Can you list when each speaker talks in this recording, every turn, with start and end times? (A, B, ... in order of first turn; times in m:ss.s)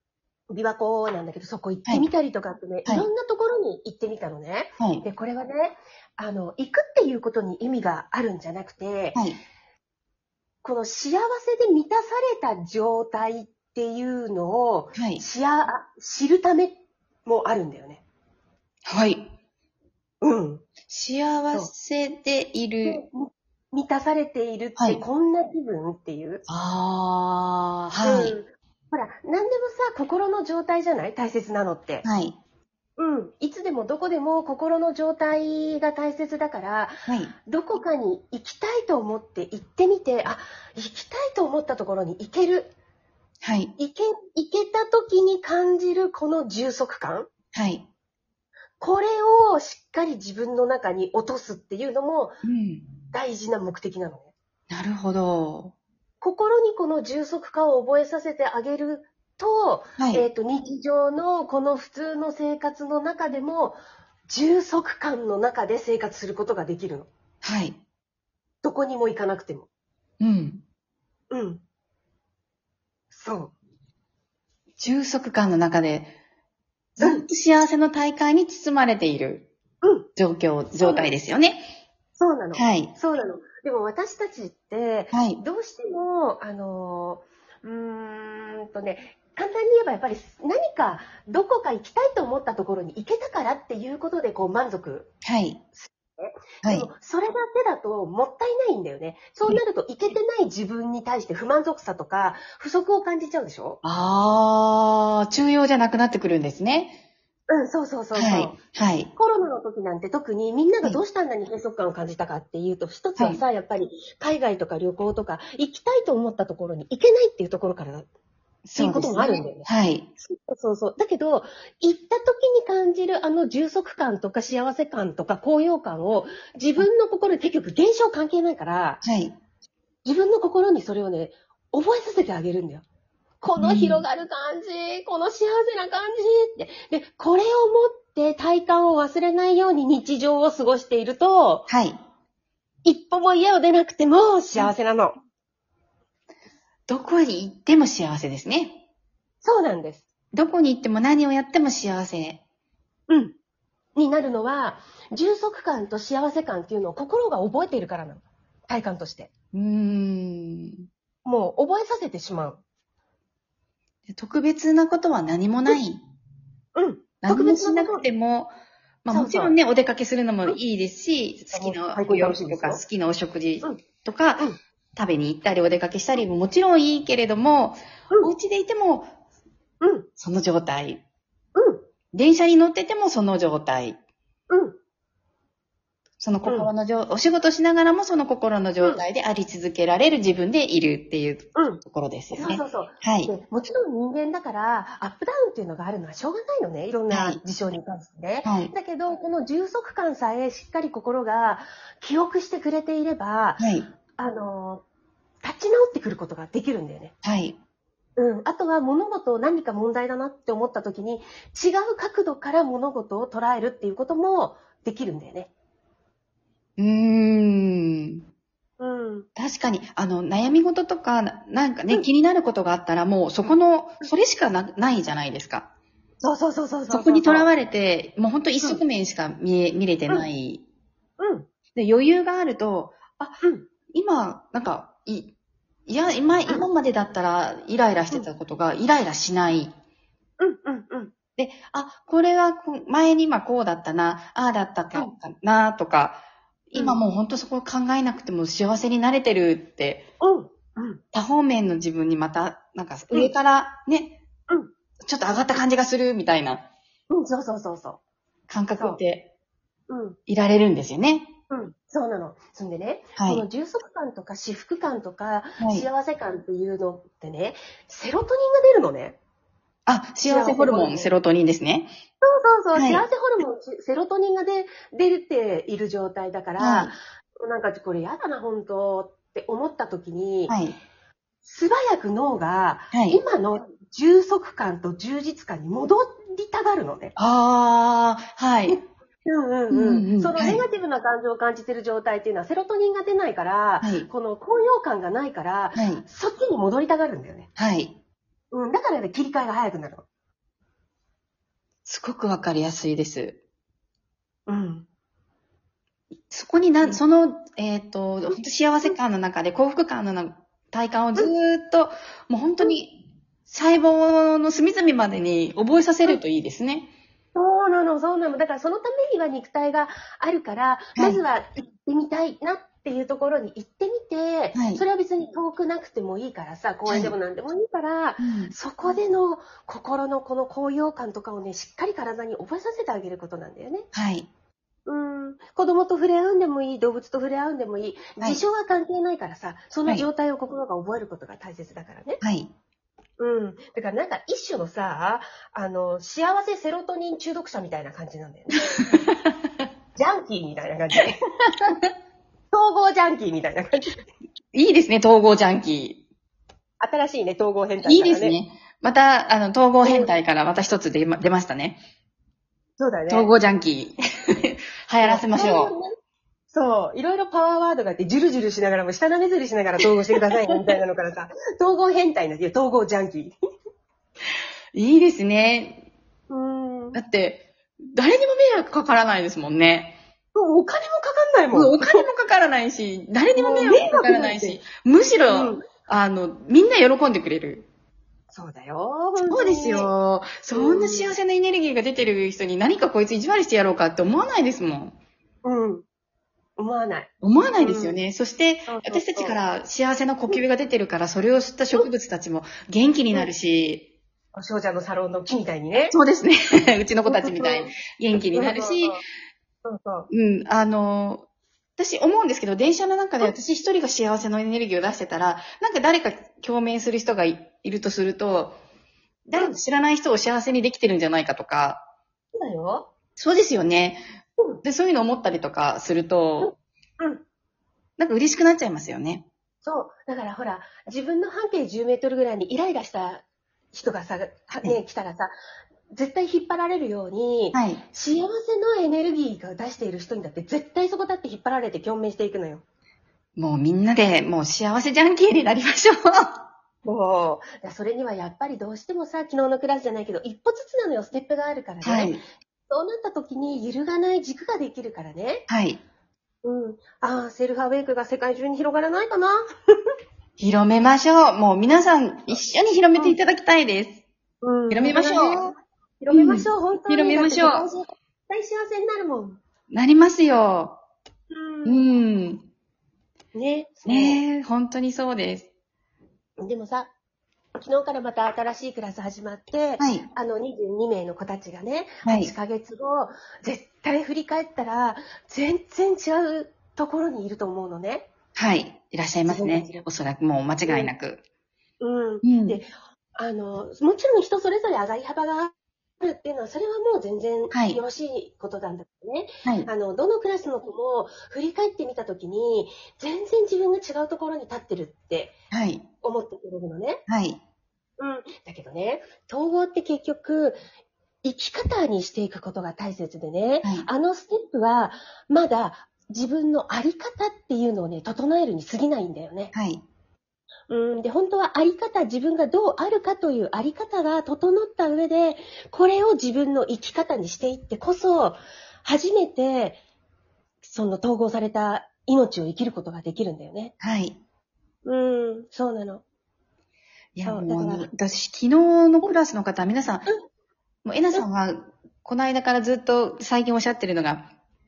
0:00.5-0:09.2 A
0:04.8-0:05.0 B
0:09.2-0:09.4 B
0:10.6-0:18.0 A
0:15.0-0:15.2 B
0:18.9-0:19.3 B
0:20.2-0:20.7 A
0:20.9-0:23.0 B
0:22.8-0:26.4 A
0:24.8-0:25.0 B
0:26.5-0:28.4 B
0:28.0-0:32.0 A
0:32.0-0:32.4 B
0:33.0-0:37.0 A
0:37.1-0:37.3 B
0:37.5-0:42.7 A
0:43.4-0:43.7 B
0:43.8-0:47.3 A
0:47.5-0:47.8 B
0:48.8-0:52.4 A
0:52.4-0:52.9 B
0:53.1-0:54.3 A
0:54.7-0:55.8 B
0:56.2-1:07.1 A
1:00.0-1:00.2 B
1:07.4-1:07.8 B
1:08.6-1:09.7 A
1:10.2-1:10.6 B
1:11.3-1:11.6 A
1:13.1-1:13.5 A
1:14.8-1:16.1 B
1:17.0-1:19.5 B
1:17.0-1:17.2 A
1:19.8-1:20.1 A
1:20.2-1:21.6 B
1:20.8-1:21.1 A
1:22.2-1:35.1 A
1:22.6-1:22.9 B
1:25.1-1:25.4 B
1:35.2-1:35.6 B
1:35.8-1:43.8 A
1:43.8-1:47.0 B
1:47.5-1:48.6 A
1:48.2-1:49.1 B
1:49.2-1:58.1 A
1:58.6-2:00.1 B
1:58.8-1:59.7 A
2:00.2-2:09.0 A
2:09.0-2:09.3 B
2:10.0-2:12.8 A
2:13.4-2:21.7 A
2:13.6-2:14.0 B
2:21.7-2:22.0 B
2:22.8-2:25.2 A
2:26.9-2:28.8 B
2:29.4-2:30.0 A
2:30.3-2:32.4 B
2:33.1-2:33.3 A
2:34.0-2:39.3 A
2:39.5-2:40.8 B
2:41.2-2:42.6 A
2:44.1-2:46.0 B
2:46.8-2:48.0 A
2:47.2-2:48.5 B
2:49.0-2:54.4 B
2:49.1-2:49.6 A
2:51.5-2:52.8 A
2:55.0-2:59.1 B
2:59.8-3:00.1 A
3:00.2-3:01.0 B
3:01.6-3:01.8 A
3:02.1-3:04.0 B
3:04.5-3:04.8 A
3:06.2-3:13.3 B
3:06.4-3:06.7 A
3:11.6-3:23.6 A
3:17.1-3:17.4 B
3:18.4-3:18.7 B
3:23.6-3:23.9 B
3:24.2-3:24.8 A
3:25.4-3:27.1 A
3:27.2-3:27.6 B
3:28.2-3:35.5 A
3:36.8-3:38.2 B
3:38.8-3:39.3 A
3:39.4-3:45.7 B
3:46.2-3:47.5 A
3:46.9-3:50.6 B
3:51.2-3:51.5 A
3:51.8-3:53.4 B
3:53.9-3:55.3 B
3:55.9-3:59.7 B
4:00.4-4:01.1 A
4:01.4-4:10.1 B
4:10.2-4:11.0 A
4:11.1-4:14.2 B
4:15.0-4:16.7 B
4:17.1-4:18.0 A
4:18.5-4:19.3 B
4:19.9-4:20.2 A
4:20.3-4:21.3 B
4:21.5-4:29.2 A
4:23.2-4:23.4 B
4:25.6-4:25.9 B
4:29.9-4:31.9 B
4:30.2-4:31.1 A
4:32.2-4:40.6 A
4:32.8-4:33.0 B
4:36.6-4:36.9 B
4:40.5-4:40.8 B
4:41.4-4:47.1 A
4:42.9-4:43.2 B
4:47.2-4:48.8 B
4:49.3-4:57.5 A
4:49.7-4:50.6 B
4:53.8-4:54.1 B
4:55.8-4:56.0 B
4:57.6-4:58.0 B
4:58.5-5:00.0 A
5:01.9-5:03.4 B
5:04.5-5:04.9 A
5:06.3-5:16.9 B
5:17.4-5:33.9 A
5:21.0-5:21.2 B
5:24.5-5:24.8 B
5:26.9-5:27.1 B
5:28.2-5:28.5 B
5:33.9-5:34.3 B
5:34.9-5:42.2 A
5:42.2-5:42.5 B
5:43.2-5:48.8 A
5:50.0-5:51.2 A
5:52.5-5:54.0 A
5:54.5-5:56.0 B
5:56.8-5:58.4 A
5:57.8-6:01.8 B
5:59.8-6:00.1 A
6:02.8-6:03.3 A
6:03.1-6:05.7 B
6:05.0-6:05.9 A
6:06.5-6:13.4 A
6:14.8-6:15.8 B
6:16.3-6:17.0 A
6:16.9-6:20.0 B
6:20.4-6:22.0 A
6:21.5-6:27.7 B
6:23.4-6:24.6 A
6:25.3-6:25.6 A
6:28.3-6:29.9 A
6:29.2-6:35.0 B
6:30.5-6:31.2 A
6:35.4-6:35.8 A
6:36.6-6:38.0 A
6:37.2-6:43.8 B
6:38.7-6:39.4 A
6:44.4-6:45.9 A
6:45.9-6:49.0 B
6:47.0-6:47.7 A
6:48.3-6:49.0 A
6:49.6-6:50.1 A
6:50.1-6:51.3 B
6:51.8-6:58.6 B
6:59.3-7:01.8 B
7:02.4-7:02.9 A
7:03.2-7:04.0 B
7:04.6-7:06.5 B
7:06.4-7:07.2 A
7:08.0-7:09.2 B
7:09.6-7:15.3 A
7:15.9-7:22.6 A
7:17.5-7:17.8 B
7:23.4-7:26.4 B
7:26.8-7:35.5 A
7:31.8-7:32.2 B
7:35.5-7:35.8 B
7:36.4-7:39.4 A
7:40.4-7:44.0 B
7:44.4-7:49.4 A
7:44.7-7:45.4 B
7:46.1-7:47.7 B
7:49.7-7:50.8 B
7:51.3-7:51.8 A
7:51.6-7:52.4 B
7:53.3-7:54.2 A
7:53.9-7:55.5 B
7:56.4-7:56.9 A
7:57.6-8:08.1 A
7:59.8-8:00.0 B
8:02.0-8:02.3 B
8:08.4-8:11.2 B
8:09.3-8:09.9 A
8:10.7-8:10.9 A
8:11.8-8:25.3 A
8:12.2-8:12.6 B
8:17.5-8:17.8 B
8:25.5-8:25.8 B
8:26.0-8:27.0 A
8:27.1-8:27.4 B
8:28.0-8:30.6 A
8:31.2-8:39.5 A
8:39.5-8:39.8 B
8:40.7-8:49.8 A
8:50.6-8:53.7 A
8:53.8-8:54.2 B
8:54.8-8:56.0 A
8:57.2-9:00.1 B
8:57.2-8:57.9 A
9:00.8-9:04.3 B